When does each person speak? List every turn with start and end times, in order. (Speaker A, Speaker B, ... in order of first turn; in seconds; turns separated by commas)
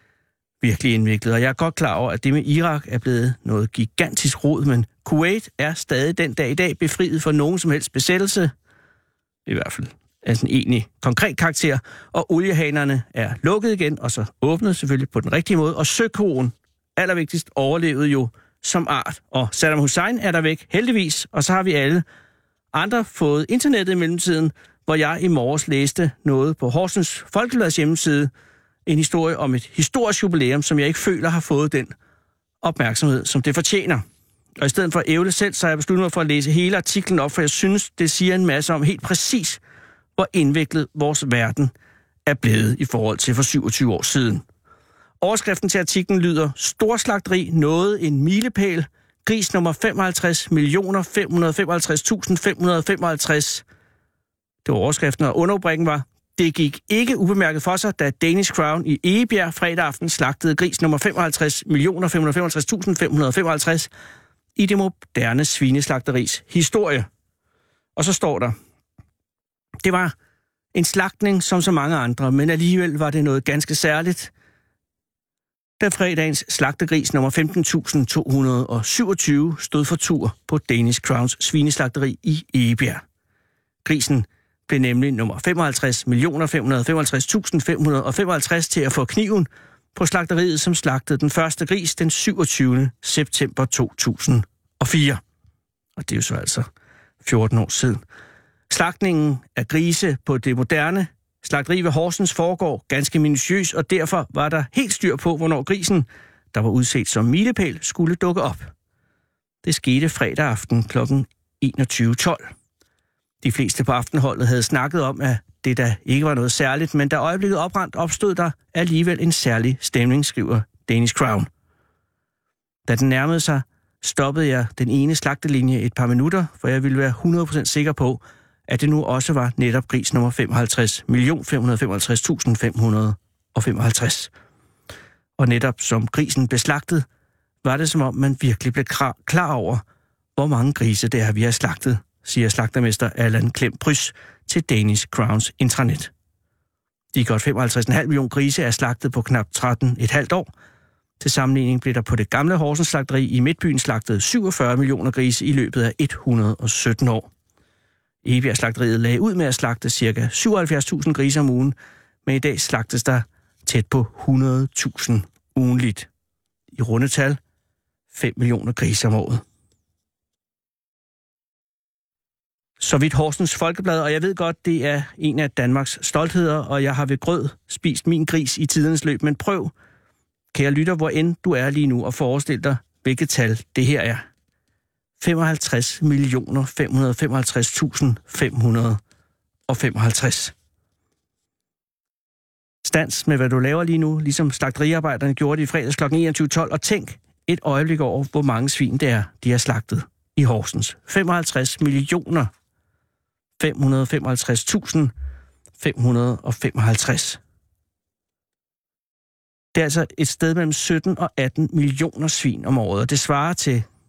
Speaker A: 0.6-8.5, Speaker A: 9.4-22.0, Speaker A: 22.7-28.3, Speaker A: 28.9-31.9, Speaker A: 32.6-34.0, Speaker A: 34.6-39.6, Speaker A: 40.2-41.7, Speaker A: 42.2-44.4, Speaker A: 45.2-53.6, Speaker A: 54.6-63.9, Speaker A: 64.5-67.1, Speaker A: 68.0-68.5, Speaker A: 69.8-70.1, Speaker A: 70.7-74.3, Speaker A: 75.8-83.0, Speaker A: 83.8-95.2, Speaker A: 96.0-96.7, Speaker A: 97.2-98.0, Speaker A: 98.7-108.7, Speaker A: 109.6-112.5, Speaker A: 113.4-121.5, Speaker A: 122.9-134.3, Speaker A: 135.4-137.0, Speaker A: 137.6-139.8, Speaker A: 140.3-146.1, Speaker A: 147.1-150.5, Speaker A: 151.2-157.3, Speaker A: 158.2-161.7, Speaker A: 162.2-166.1, Speaker A: 166.7-167.4, Speaker A: 168.1-169.4, Speaker A: 172.8-179.7, Speaker A: 180.5-184.2, Speaker A: 185.2-189.0, Speaker A: 189.7-190.5, Speaker A: 192.8-202.5, Speaker A: 203.6-205.1, Speaker A: 205.8-207.4, Speaker A: 209.7-213.8